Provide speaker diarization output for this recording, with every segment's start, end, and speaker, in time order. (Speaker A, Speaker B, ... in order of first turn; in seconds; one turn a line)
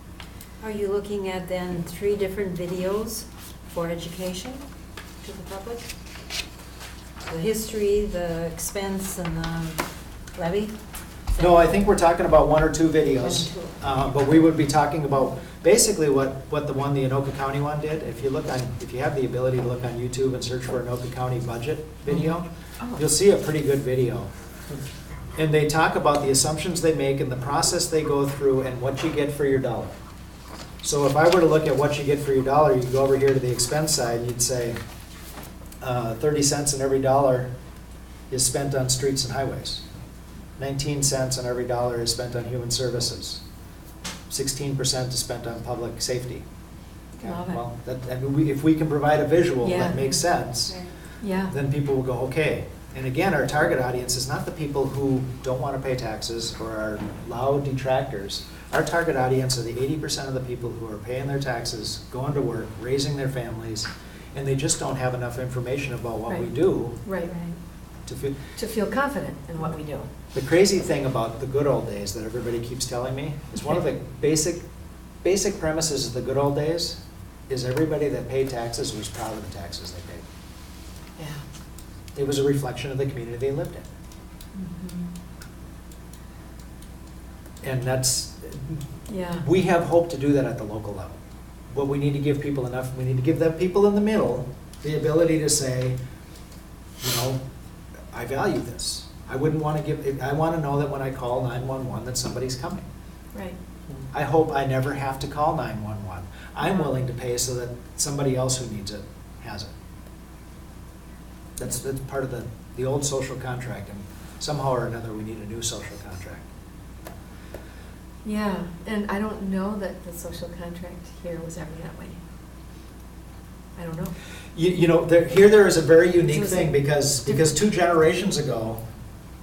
Speaker A: 0.6-4.6
Speaker A: 5.2-5.9
Speaker A: 7.2-9.8
Speaker A: 10.3-10.7
Speaker A: 11.3-11.7
Speaker B: 11.4-24.3
Speaker A: 13.2-13.7
Speaker B: 25.4-29.9
Speaker B: 30.8-34.8
Speaker B: 35.8-37.5
Speaker B: 38.3-39.8
Speaker B: 40.6-43.4
Speaker B: 44.3-46.4
Speaker B: 47.2-50.8
Speaker A: 47.3-47.6
Speaker A: 49.6-50.1
Speaker C: 51.2-51.5
Speaker B: 51.5-67.0
Speaker C: 67.0-67.3
Speaker A: 67.1-67.6
Speaker B: 68.1-68.4
Speaker C: 68.6-70.1
Speaker B: 70.3-74.6
Speaker B: 75.2-80.2
Speaker B: 82.2-83.9
Speaker A: 84.5-85.1
Speaker B: 87.6-88.8
Speaker A: 89.1-89.4
Speaker B: 89.4-91.2
Speaker B: 91.7-96.0
Speaker B: 97.0-97.4
Speaker B: 98.1-102.8
Speaker B: 104.1-109.7
Speaker B: 111.6-116.5
Speaker C: 118.2-122.2
Speaker A: 118.5-120.5
Speaker A: 121.1-121.7
Speaker C: 123.8-124.1
Speaker B: 124.5-128.8